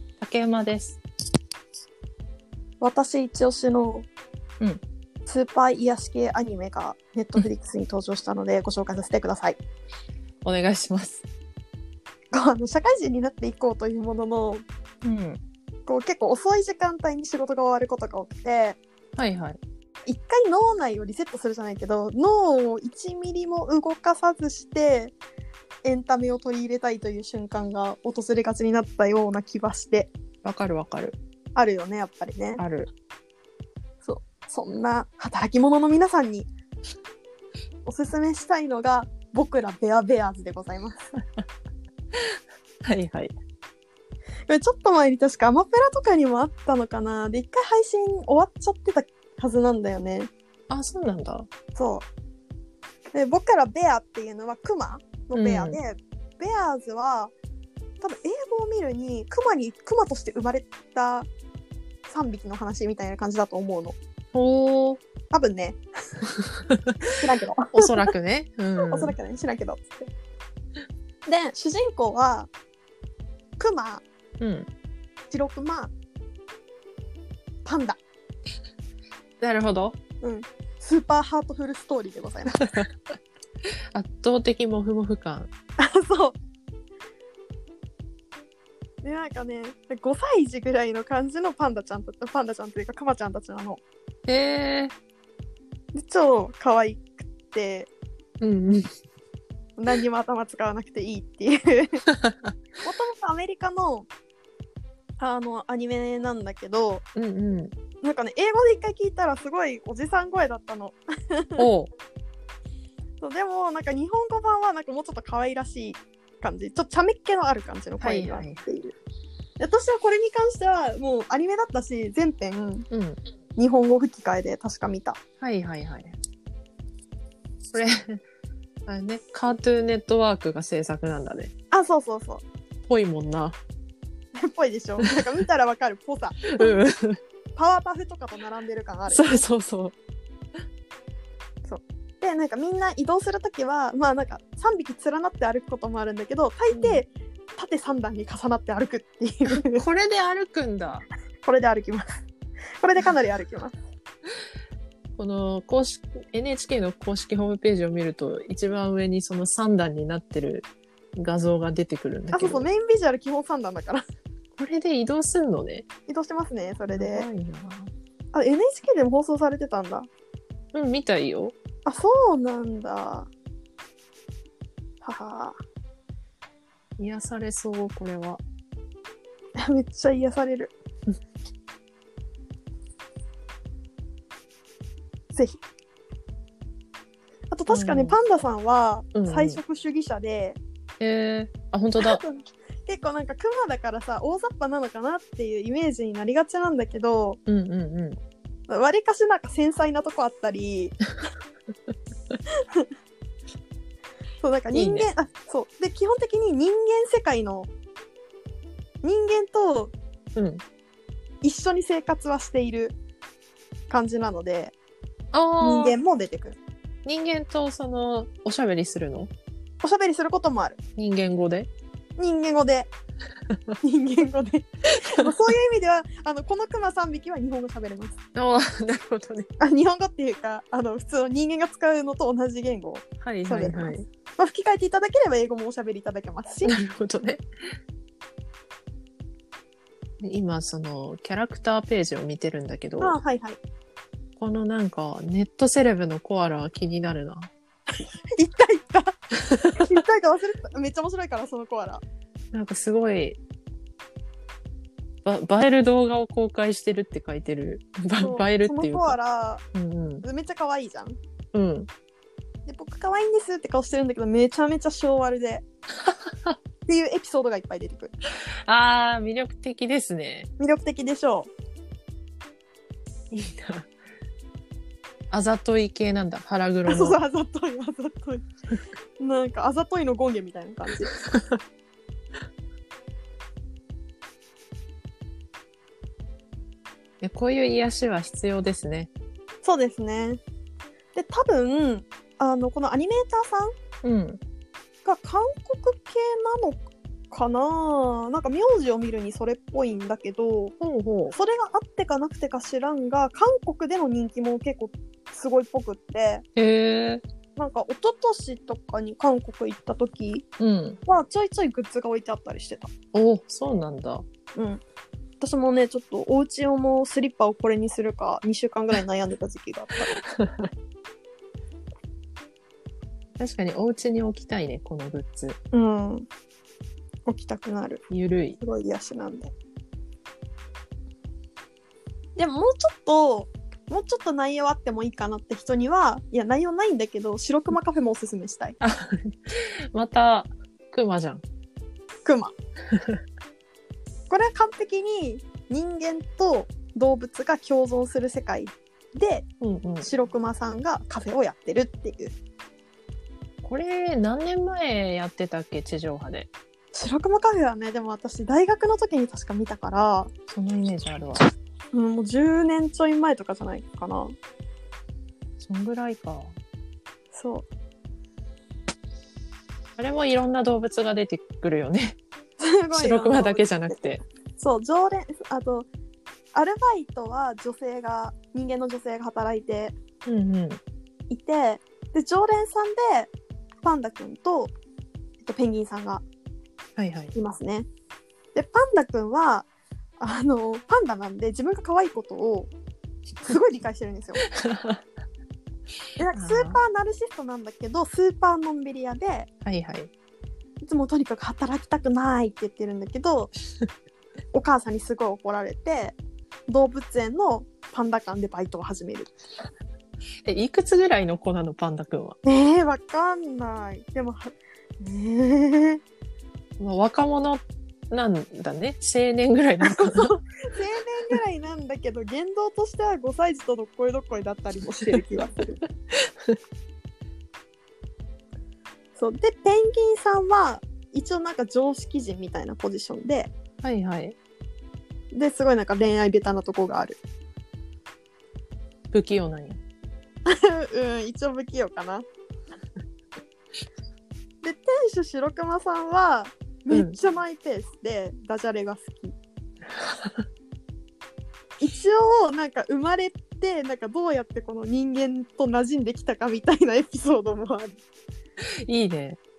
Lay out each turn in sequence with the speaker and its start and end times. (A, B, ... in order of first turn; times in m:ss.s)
0:00.2-0:01.0 A
0:02.8-0:04.1 B
0:05.3-0:09.6 B
0:10.4-0:11.2 A
0:12.3-0:14.6 B
0:15.0-0:15.4 A
0:15.9-0:18.8 B
0:19.2-0:19.6 A
0:20.1-0:25.2 B
0:25.8-0:30.1 B
0:30.4-0:31.2 A
0:31.6-0:32.6 B
0:32.6-0:32.9 A
0:34.0-0:36.5 B
0:37.8-0:41.1 B
0:42.8-0:43.3 A
0:44.5-0:50.3 B
0:50.7-0:51.5 A
0:51.8-0:52.1 B
0:53.1-0:57.3 B
0:55.3-0:55.8 A
0:58.0-1:01.3 B
1:02.1-1:04.0 B
1:04.3-1:05.0 A
1:05.3-1:06.2 B
1:06.4-1:07.0 A
1:07.1-1:08.1 B
1:07.7-1:09.2 A
1:08.8-1:10.1 B
1:11.3-1:12.5 B
1:13.6-1:14.0 B
1:14.4-1:14.7 A
1:15.3-1:15.9 B
1:17.6-1:18.0 B
1:19.4-1:20.0 A
1:20.2-1:22.8 B
1:23.9-1:25.5 A
1:25.8-1:26.4 B
1:29.0-1:33.8 B
1:34.3-1:34.9 A
1:35.9-1:37.9 B
1:38.4-1:38.8 A
1:39.8-1:42.0 B
1:42.1-1:42.5 A
1:42.8-1:44.1 B
1:45.2-1:47.0 B
1:47.2-1:47.7 A
1:48.0-1:51.6 B
1:51.6-1:51.9 A
1:53.2-1:59.0 B
1:58.0-1:58.6 A
1:59.6-2:02.9 B
2:02.9-2:03.2 A
2:03.6-2:05.2 B
2:05.4-2:06.2 A
2:07.7-2:08.2 A
2:08.9-2:11.5 A
2:11.7-2:12.4 B
2:12.9-2:13.6 A
2:14.4-2:16.8 B
2:16.5-2:17.2 A
2:17.6-2:19.4 B
2:19.1-2:20.0 A
2:21.6-2:29.8 B
2:26.7-2:27.0 A
2:29.5-2:31.1 A
2:31.4-2:32.3 B
2:32.8-2:33.8 B
2:35.2-2:40.7 A
2:41.2-2:42.7 A
2:42.3-2:44.0 B
2:44.6-2:45.9 A
2:46.1-2:47.3 B
2:46.9-2:47.9 A
2:48.3-2:50.1 B
2:50.7-2:51.6 A
2:51.8-2:53.3 B
2:55.0-2:55.6 B
2:57.0-2:58.4 A
2:59.6-3:00.7 B
3:05.3-3:05.6 B
3:07.5-3:10.6 B
3:07.7-3:08.2 A
3:09.2-3:09.6 A
3:11.0-3:12.2 A
3:12.0-3:17.4 B
3:17.5-3:18.2 A
3:18.7-3:21.0 B
3:24.4-3:27.7 B
3:24.7-3:25.1 A
3:29.0-3:29.9 B
3:30.4-3:30.6 A
3:31.4-3:33.0 B
3:33.9-3:34.7 B
3:35.3-3:36.0 A
3:35.6-3:36.6 B
3:37.0-3:39.3 A
3:39.8-3:40.8 B
3:41.0-3:41.7 A
3:42.2-3:42.9 B
3:43.8-3:48.2 B
3:48.4-3:49.5 A
3:49.6-3:56.7 B
3:53.2-3:54.1 A
3:56.7-3:57.4 A
4:00.2-4:03.2 A
4:03.0-4:03.6 B
4:04.4-4:07.5 A
4:08.4-4:09.2 B
4:09.7-4:12.0 B
4:12.5-4:13.4 A
4:15.2-4:19.2 A
4:18.2-4:19.6 B
4:19.7-4:20.2 A
4:20.2-4:21.2 B
4:21.5-4:21.9 A
4:22.7-4:25.6 B
4:26.0-4:26.6 A
4:26.9-4:28.1 B
4:28.7-4:30.5 A
4:30.6-4:31.5 B
4:33.3-4:33.9 A
4:35.3-4:37.2 A
4:36.9-4:38.5 B
4:39.2-4:41.2 B
4:47.2-4:49.1 A
4:49.6-4:50.4 B
4:51.2-4:53.7 B
4:54.0-4:54.4 A
4:55.0-5:00.8 B
5:00.8-5:01.4 A
5:01.3-5:06.4 B
5:06.6-5:07.2 A
5:07.6-5:10.5 B
5:10.6-5:11.0 A
5:11.1-5:12.9 B
5:13.1-5:14.2 A
5:14.6-5:14.8 B
5:15.4-5:20.2 B
5:20.3-5:20.7 A
5:23.4-5:25.6 A
5:25.7-5:26.3 B
5:27.3-5:28.0 B
5:28.1-5:28.6 A
5:28.6-5:29.5 B
5:32.4-5:38.8 B
5:38.8-5:41.4 A
5:42.2-5:42.5 B
5:44.3-5:49.5 B
5:49.6-5:50.1 A
5:50.0-5:52.4 B
5:53.6-5:56.5 A
5:56.9-6:00.3 B
6:00.5-6:01.5 A
6:01.9-6:04.4 B
6:05.6-6:06.6 A
6:07.3-6:07.7 B
6:10.0-6:12.2 A
6:12.6-6:14.0 B
6:12.9-6:14.2 A
6:14.6-6:15.9 B
6:16.5-6:20.0 B
6:20.2-6:20.8 A
6:21.3-6:23.3 B
6:23.8-6:24.7 B
6:25.4-6:26.2 B
6:27.0-6:27.3 A
6:27.4-6:27.9 B
6:28.6-6:29.7 B
6:30.2-6:32.7 B
6:33.4-6:34.4 B
6:34.6-6:35.0 A
6:36.2-6:39.5 B
6:36.4-6:36.8 A
6:39.6-6:40.1 A
6:40.8-6:43.5 B
6:44.5-6:46.2 B
6:46.7-6:49.4 B
6:50.4-6:52.4 A
6:52.4-6:56.0 B
6:56.8-7:00.3 A
6:59.8-7:05.8 B
7:09.2-7:13.5 B
7:13.8-7:14.4 A
7:15.3-7:17.2 B
7:19.1-7:19.8 A
7:20.5-7:22.2 B
7:24.6-7:29.4 B
7:31.8-7:38.0 B
7:38.9-7:39.4 A